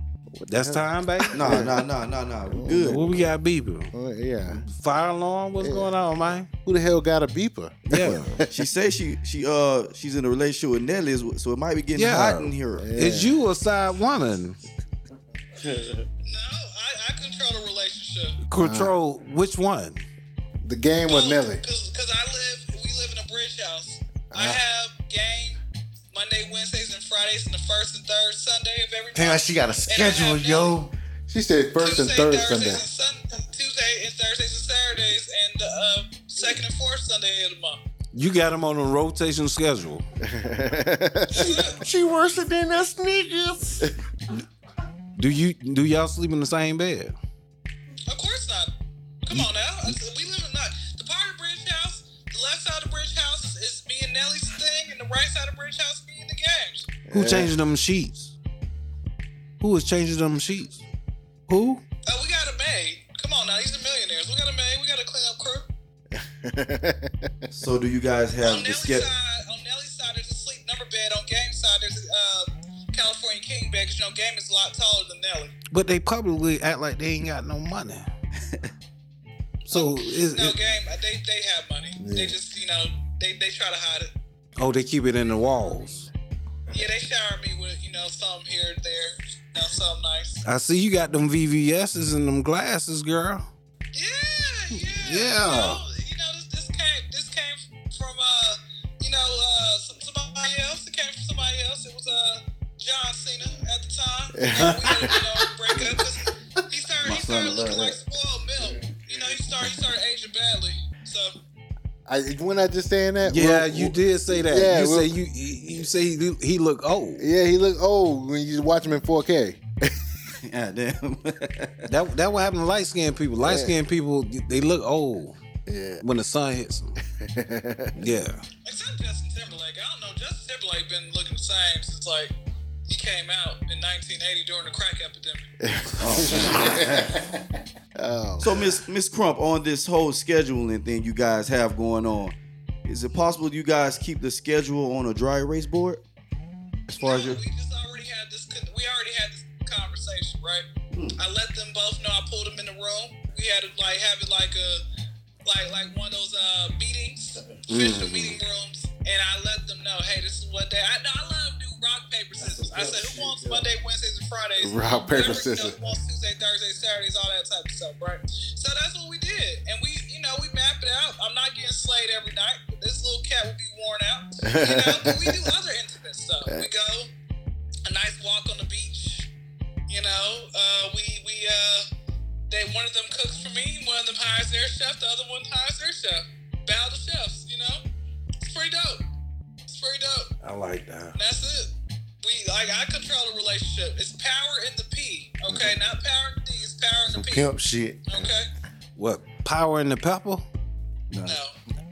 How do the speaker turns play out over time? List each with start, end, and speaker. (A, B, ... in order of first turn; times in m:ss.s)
0:00.3-0:01.8 A
0:00.5-0:01.7 B
0:01.3-0:03.0 C
0:02.5-0:03.2 A
0:02.8-0:03.9 B
0:03.9-0:04.6 A
0:04.5-0:06.5 B
0:05.6-0:05.9 A
0:06.6-0:08.4 A
0:07.9-0:08.2 B
0:07.9-0:12.9 C
0:11.9-0:14.6 B
0:12.8-0:13.4 A
0:16.2-0:18.4 D
0:18.4-0:20.0 B
0:18.6-0:18.9 A
0:20.6-0:21.6 A
0:21.1-0:25.6 D
0:24.3-0:24.6 A
0:26.1-0:30.8 D
0:29.1-0:30.9 E
0:31.3-0:32.8 A
0:31.8-0:37.8 D
0:38.1-0:40.0 B
0:40.2-0:41.6 A
0:41.3-0:43.9 E
0:41.4-0:41.8 D
0:45.2-0:47.1 B
0:48.1-0:48.7 D
0:49.2-0:56.9 D
0:57.1-0:57.5 A
0:57.1-0:58.3 B
0:59.6-1:00.8 B
1:01.5-1:01.8 B
1:02.1-1:05.7 D
1:06.1-1:07.5 A
1:07.5-1:09.1 C
1:08.4-1:15.5 D
1:15.7-1:18.1 B
1:18.4-1:18.7 C
1:19.7-1:20.6 B
1:19.7-1:24.1 D
1:22.0-1:22.4 A
1:24.6-1:26.1 B
1:26.7-1:30.4 D
1:30.4-1:33.5 B
1:33.9-1:51.3 D
1:34.9-1:35.8 B
1:44.4-1:45.2 A
1:44.5-1:45.2 B
1:47.0-1:48.0 C
1:52.1-1:55.1 A
1:53.2-1:57.3 B
1:57.2-1:59.9 A
2:00.4-2:01.8 C
2:01.9-2:05.4 B
2:03.4-2:03.7 A
2:05.7-2:06.0 A
2:06.0-2:07.0 B
2:07.2-2:08.1 A
2:08.0-2:08.4 B
2:08.6-2:12.3 D
2:12.9-2:15.5 D
2:15.7-2:17.3 A
2:16.0-2:17.0 C
2:18.0-2:18.8 A
2:18.4-2:26.0 C
2:26.9-2:27.4 C
2:26.9-2:30.6 D
2:30.9-2:31.2 C
2:31.2-2:34.8 D
2:35.4-2:57.1 D
2:37.7-2:38.4 B
2:44.6-2:45.8 A
2:54.4-2:55.4 A
2:57.8-2:59.3 D
2:59.9-3:01.9 D
3:02.5-3:07.8 D
3:08.4-3:09.0 D
3:09.7-3:10.3 D
3:10.4-3:11.2 B
3:11.1-3:17.5 D
3:17.1-3:18.3 E
3:18.1-3:18.5 D
3:19.0-3:20.4 B
3:21.1-3:21.4 C
3:21.2-3:21.5 D